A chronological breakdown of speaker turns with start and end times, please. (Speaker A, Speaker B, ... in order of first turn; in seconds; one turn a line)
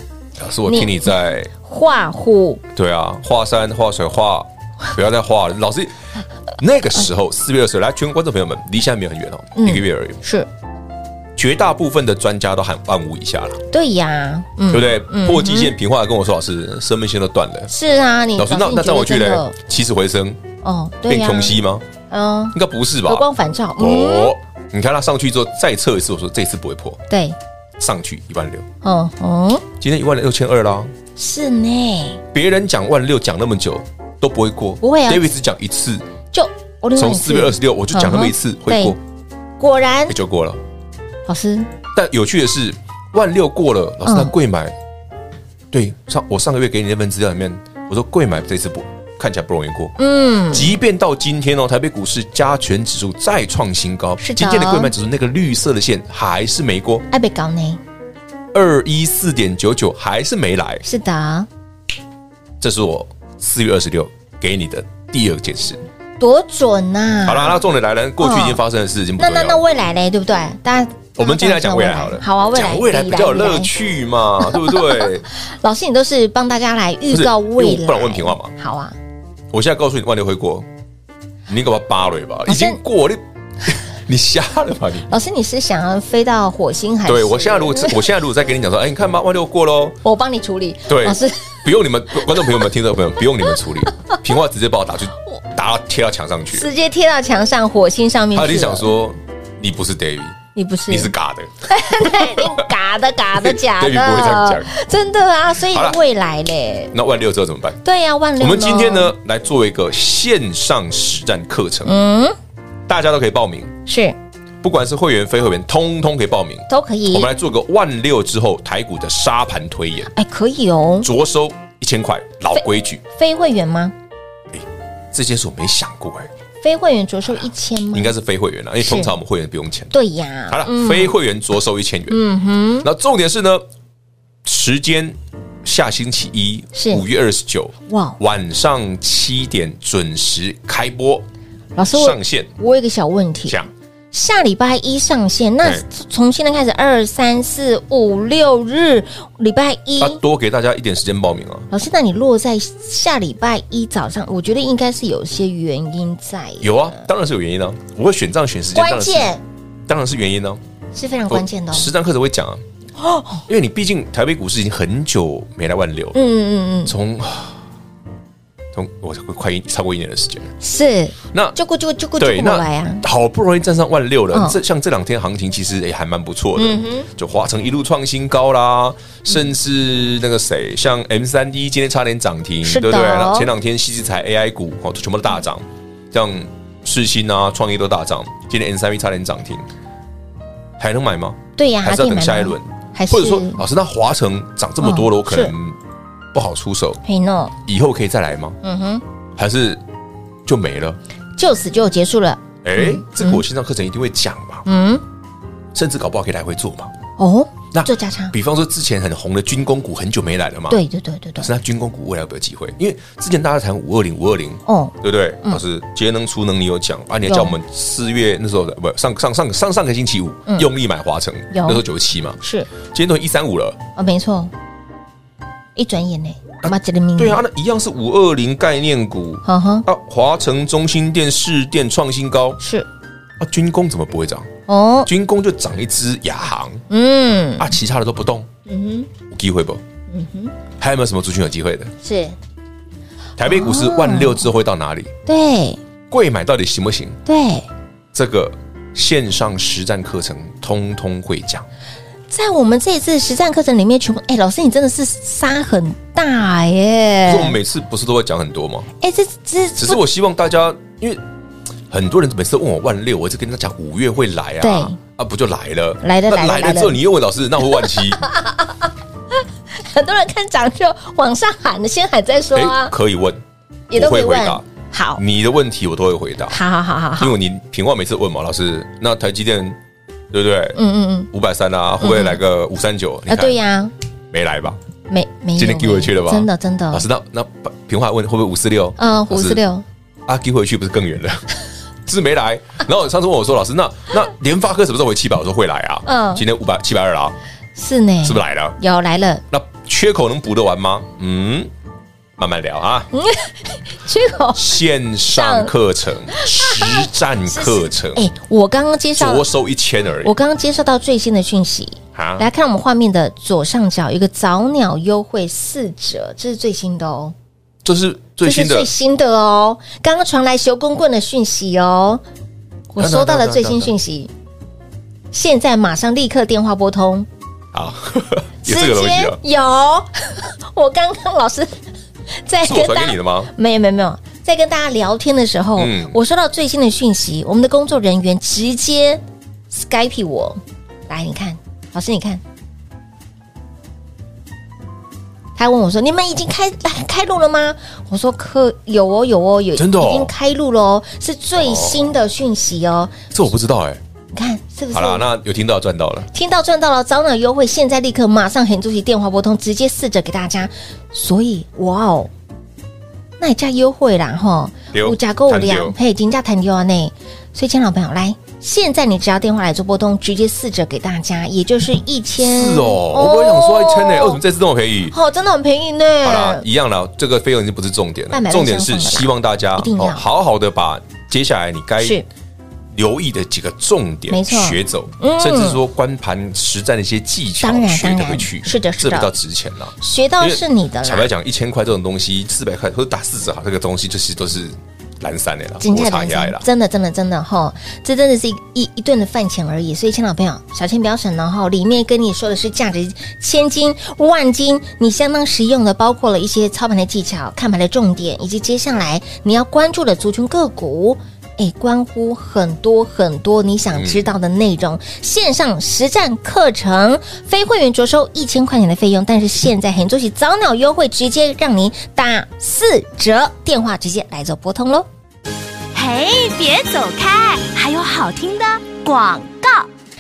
Speaker A: 0.4-1.5
Speaker B: 0.7-2.6
Speaker A: 2.7-6.0
Speaker A: 6.6-10.2
Speaker B: 9.6-10.5
Speaker A: 11.4-13.6
Speaker B: 13.7-15.7
Speaker A: 14.7-17.7
Speaker B: 17.7-19.6
Speaker A: 18.4-20.4
Speaker B: 20.6-21.6
Speaker A: 21.1-21.9
Speaker B: 22.1-24.4
Speaker A: 22.5-23.3
Speaker A: 23.8-27.0
Speaker B: 27.1-27.4
Speaker A: 27.8-28.7
Speaker B: 28.8-29.6
Speaker A: 29.8-30.9
Speaker B: 31.2-32.2
Speaker A: 32.3-36.0
Speaker B: 34.8-35.3
Speaker B: 36.3-39.0
Speaker A: 37.0-39.0
Speaker B: 39.6-40.2
Speaker A: 40.1-40.6
Speaker B: 41.3-41.7
Speaker A: 41.9-44.8
Speaker B: 44.0-44.4
Speaker A: 45.7-50.0
Speaker B: 50.0-50.7
Speaker A: 50.5-57.1
Speaker B: 54.2-54.9
Speaker B: 57.1-57.8
Speaker A: 58.5-60.8
Speaker B: 60.8-61.5
Speaker A: 62.6-65.8
Speaker B: 66.2-67.6
Speaker A: 67.2-69.6
Speaker B: 68.2-68.6
Speaker B: 69.2-73.7
Speaker A: 71.2-75.3
Speaker B: 74.4-79.0
Speaker A: 77.1-78.5
Speaker A: 79.5-80.7
Speaker A: 81.5-85.1
Speaker B: 82.5-82.8
Speaker B: 85.1-88.0
Speaker A: 87.1-90.0
Speaker B: 90.0-91.7
Speaker A: 90.9-96.7
Speaker B: 92.4-92.6
Speaker B: 96.5-98.9
Speaker A: 98.3-100.4
Speaker B: 100.5-101.1
Speaker A: 100.9-102.7
Speaker B: 101.7-106.9
Speaker A: 103.3-104.7
Speaker A: 105.7-106.0
Speaker A: 106.9-107.8
Speaker B: 107.8-109.1
Speaker A: 108.4-112.0
Speaker B: 111.8-112.3
Speaker A: 112.9-113.8
Speaker B: 113.9-114.2
Speaker A: 114.6-120.1
Speaker B: 116.7-117.3
Speaker B: 120.1-121.1
Speaker A: 121.0-123.0
Speaker B: 122.5-123.9
Speaker A: 124.5-126.3
Speaker B: 126.6-128.1
Speaker A: 127.9-129.9
Speaker B: 128.8-129.1
Speaker B: 129.9-131.2
Speaker A: 130.5-132.2
Speaker B: 132.1-132.9
Speaker A: 132.8-133.6
Speaker A: 134.4-141.2
Speaker B: 136.8-137.0
Speaker B: 137.9-138.2
Speaker B: 141.8-143.6
Speaker A: 141.9-142.5
Speaker B: 144.1-150.2
Speaker A: 150.0-151.7
Speaker B: 151.7-157.1
Speaker A: 156.6-159.3
Speaker B: 158.8-159.4
Speaker A: 159.9-160.6
Speaker B: 160.9-161.9
Speaker A: 161.3-162.6
Speaker B: 163.0-163.4
Speaker A: 163.5-166.2
Speaker B: 166.1-166.9
Speaker A: 166.9-167.6
Speaker A: 168.7-170.5
Speaker B: 170.6-173.0
Speaker A: 171.3-171.6
Speaker A: 172.2-189.7
Speaker B: 174.3-174.6
Speaker B: 176.6-177.1
Speaker B: 182.6-183.5
Speaker A: 190.8-195.8
Speaker B: 191.6-193.6
Speaker B: 194.8-195.5
Speaker A: 196.3-197.0
Speaker B: 197.0-197.5
Speaker A: 197.7-198.6
Speaker B: 198.6-199.0
Speaker A: 199.4-199.8
Speaker A: 200.5-201.0
Speaker B: 201.4-203.4
Speaker A: 202.6-204.7
Speaker B: 204.7-205.0
Speaker A: 205.7-206.9
Speaker B: 207.2-208.3
Speaker A: 207.7-210.8
Speaker B: 210.7-211.5
Speaker A: 211.4-223.8
Speaker B: 214.7-215.6
Speaker B: 217.3-217.6
Speaker B: 221.5-221.8
Speaker B: 222.4-222.7
Speaker B: 224.0-224.5
Speaker B: 225.8-227.4
Speaker A: 226.6-232.6
Speaker B: 229.4-229.9
Speaker B: 232.6-232.9
Speaker A: 233.4-234.5
Speaker B: 234.7-235.1
Speaker A: 235.1-236.8
Speaker B: 236.9-237.8
Speaker A: 237.6-238.5
Speaker B: 238.7-239.1
Speaker A: 239.3-239.8
Speaker B: 240.1-240.5
Speaker A: 240.8-241.9
Speaker B: 242.0-242.4
Speaker A: 243.4-245.1
Speaker B: 243.4-244.5
Speaker B: 245.3-245.8
Speaker A: 246.1-247.2
Speaker B: 247.3-247.7
Speaker A: 248.1-251.7
Speaker B: 252.3-257.6
Speaker A: 257.3-258.9
Speaker B: 259.0-260.0
Speaker A: 259.8-261.2
Speaker A: 261.9-268.2
Speaker B: 264.6-265.0
Speaker B: 266.0-267.0
Speaker B: 267.7-268.9
Speaker B: 269.7-272.9
Speaker A: 272.5-274.6
Speaker B: 273.9-275.2
Speaker A: 275.2-276.6
Speaker B: 276.5-277.4
Speaker A: 277.2-279.8
Speaker A: 280.3-280.8
Speaker B: 280.8-281.3
Speaker A: 281.3-283.6
Speaker B: 282.0-282.4
Speaker B: 283.3-283.9
Speaker A: 284.3-284.8
Speaker B: 285.1-287.1
Speaker A: 285.6-289.6
Speaker B: 289.0-289.9
Speaker A: 290.3-291.4
Speaker A: 292.1-297.4
Speaker B: 296.1-296.4
Speaker B: 297.8-299.4
Speaker A: 298.2-298.8
Speaker A: 299.5-301.7
Speaker A: 302.4-303.1
Speaker B: 303.1-304.7
Speaker A: 304.6-308.3
Speaker B: 305.2-305.7
Speaker B: 306.3-309.5
Speaker A: 309.2-310.3
Speaker B: 310.2-317.3
Speaker A: 312.1-312.5
Speaker A: 317.8-318.9
Speaker B: 318.4-322.2
Speaker B: 322.9-324.3
Speaker A: 323.0-323.9
Speaker B: 325.3-327.3
Speaker A: 327.7-329.4
Speaker B: 328.6-331.8
Speaker B: 332.3-342.4
Speaker A: 332.6-333.5
Speaker A: 335.8-336.2
Speaker B: 345.6-353.1
Speaker A: 349.8-350.3
Speaker A: 351.6-352.1
Speaker A: 353.3-354.0
Speaker B: 354.3-355.3
Speaker A: 354.9-356.3
Speaker B: 356.3-362.3
Speaker B: 363.4-374.4
Speaker A: 364.9-365.9
Speaker A: 372.4-375.1
Speaker B: 375.1-376.7
Speaker A: 376.2-382.2
Speaker B: 378.3-380.2
Speaker B: 382.0-382.2
Speaker A: 382.9-396.6
Speaker B: 384.3-385.8
Speaker B: 387.6-389.3
Speaker B: 390.0-391.3
Speaker B: 395.8-425.1
Speaker A: 413.9-414.3
Speaker C: 425.9-429.9